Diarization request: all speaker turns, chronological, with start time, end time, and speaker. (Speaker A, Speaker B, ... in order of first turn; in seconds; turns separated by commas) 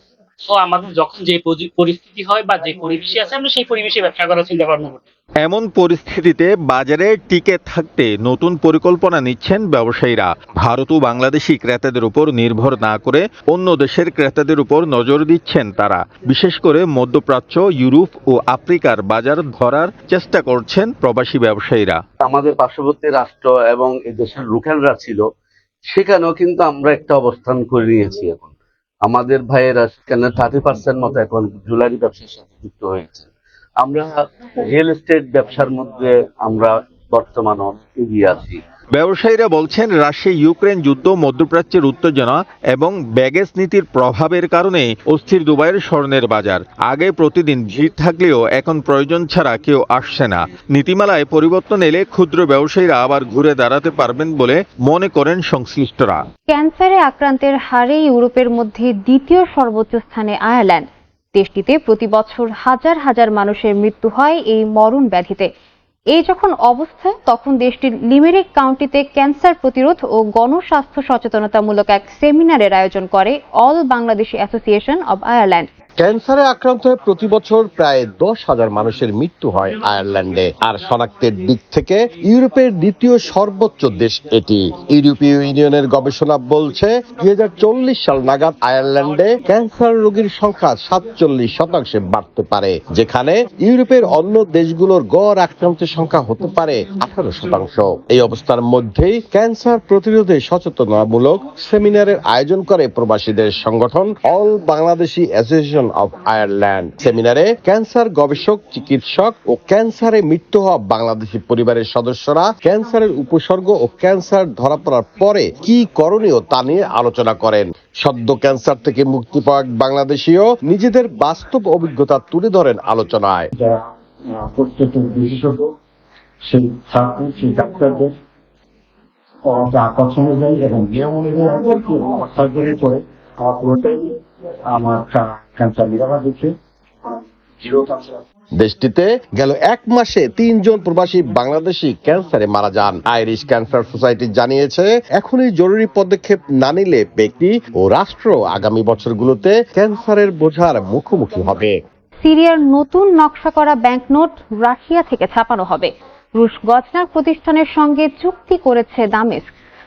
Speaker A: 0.5-5.0, Speaker B: 5.4-22.0, Speaker C: 22.2-25.2, Speaker C: 25.9-28.5, Speaker C: 29.0-33.3, Speaker C: 33.8-38.6, Speaker B: 38.9-56.2, Speaker D: 56.5-65.5, Speaker D: 66.1-75.7, Speaker E: 76.0-123.5, Speaker F: 123.5-125.7, Speaker F: 126.4-128.1, Speaker F: 129.5-134.2, Speaker F: 134.7-136.5, Speaker F: 137.1-138.2, Speaker E: 138.6-151.7, Speaker D: 152.2-159.5